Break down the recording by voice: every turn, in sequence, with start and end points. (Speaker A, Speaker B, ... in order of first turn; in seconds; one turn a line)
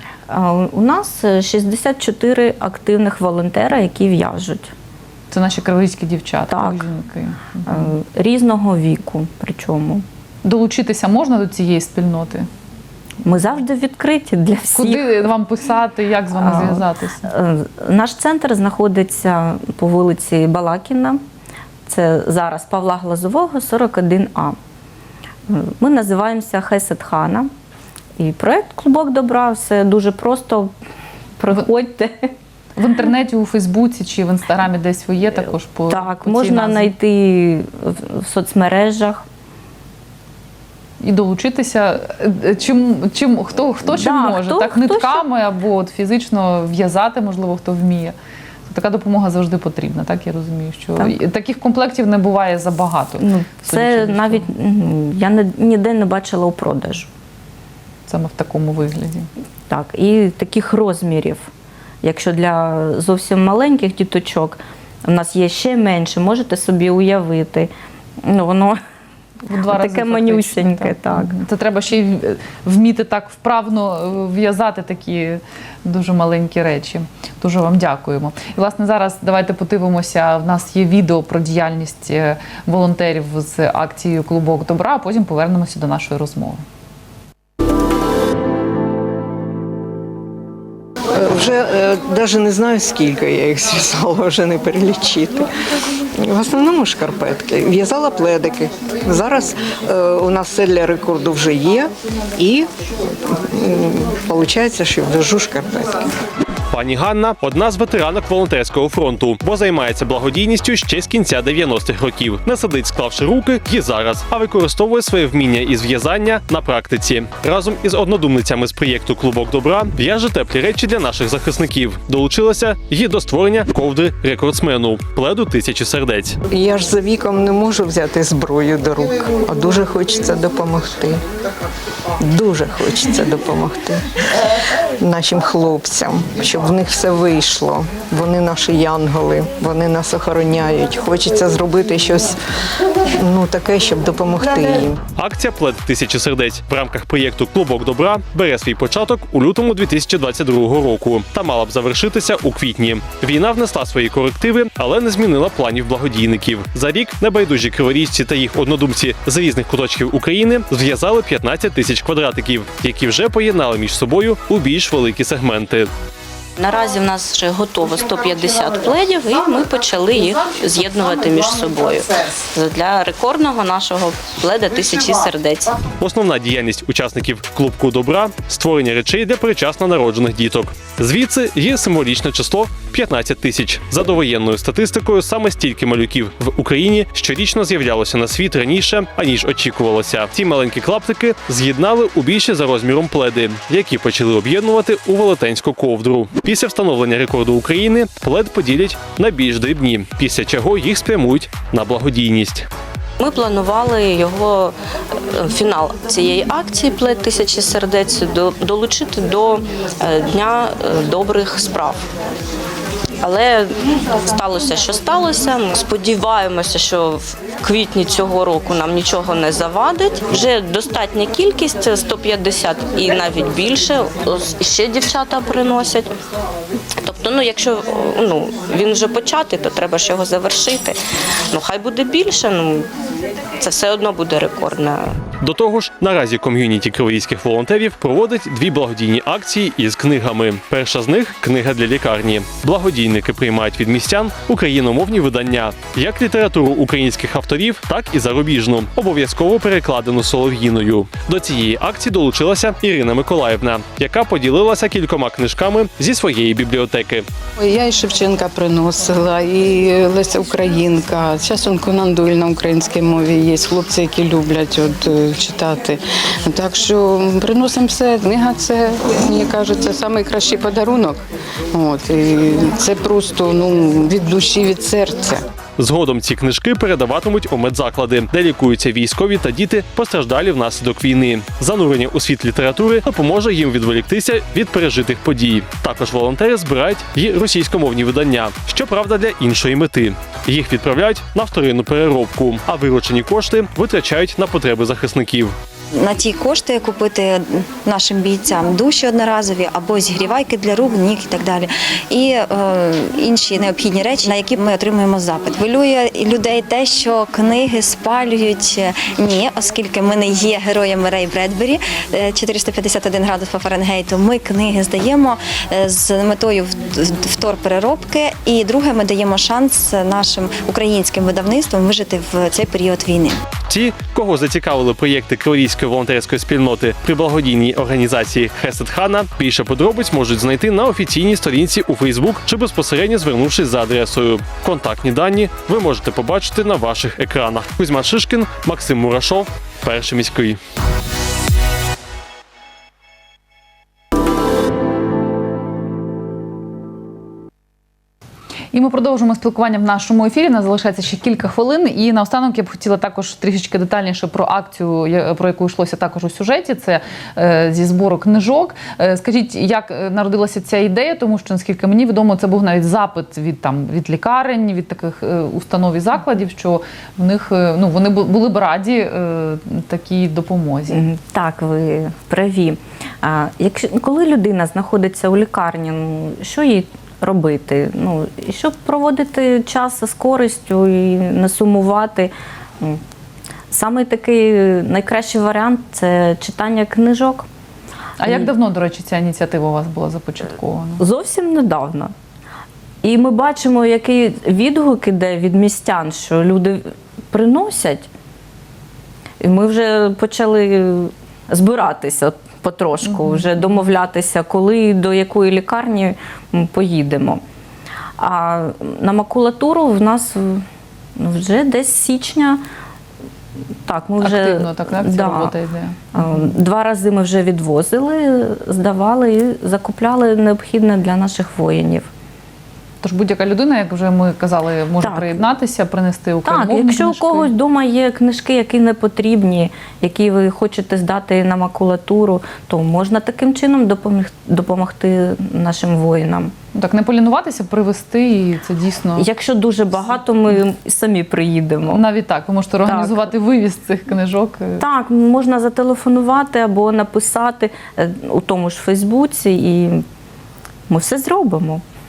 Speaker A: 0.3-4.7
Speaker B: 5.3-7.9
Speaker A: 6.5-6.8
Speaker A: 7.7-10.0
Speaker B: 10.4-12.5
Speaker A: 13.2-15.2
Speaker B: 14.7-17.3
Speaker A: 16.3-21.2
Speaker A: 21.9-24.6
Speaker A: 25.5-27.5
Speaker A: 28.2-30.7
Speaker A: 31.4-32.3
Speaker B: 32.8-36.9
Speaker A: 35.9-39.2
Speaker B: 41.0-48.1
Speaker A: 43.8-45.2
Speaker B: 48.7-54.5
Speaker A: 53.2-57.1
Speaker B: 58.1-59.3
Speaker A: 59.7-61.5
Speaker A: 62.0-67.7
Speaker A: 68.2-68.8
Speaker B: 69.5-86.6
Speaker A: 69.7-71.3
Speaker C: 91.1-95.5
Speaker C: 96.2-102.7
Speaker C: 103.3-106.0
Speaker D: 106.7-126.4
Speaker C: 126.5-131.2
Speaker C: 132.2-134.0
Speaker C: 135.0-142.4
Speaker C: 143.1-145.0
Speaker D: 145.2-165.9
Speaker A: 166.6-175.8
Speaker D: 176.0-202.7
Speaker A: 203.2-204.8
Speaker A: 205.3-212.1
Speaker A: 213.2-226.1
Speaker A: 227.0-231.0
Speaker A: 231.5-232.9
Speaker A: 233.6-235.1
Speaker D: 235.4-257.2
Speaker E: 257.6-275.4
Speaker D: 275.8-295.5
Speaker F: 295.9-323.4
Speaker D: 323.7-340.6
Speaker B: 348.7-371.0
Speaker A: 370.9-383.0
Speaker A: 383.7-387.5
Speaker B: 388.2-391.0
Speaker A: 391.0-392.1
Speaker A: 393.0-396.8
Speaker A: 397.3-398.1
Speaker A: 399.4-407.4
Speaker A: 408.2-410.6
Speaker A: 411.2-412.6
Speaker A: 413.9-415.5
Speaker B: 414.2-416.3
Speaker A: 416.1-422.1
Speaker B: 423.0-427.5
Speaker A: 425.0-425.4
Speaker A: 426.4-436.5
Speaker B: 436.7-439.3
Speaker A: 439.2-442.0
Speaker B: 441.9-444.8
Speaker A: 442.9-443.3
Speaker A: 444.8-450.0
Speaker A: 450.9-451.8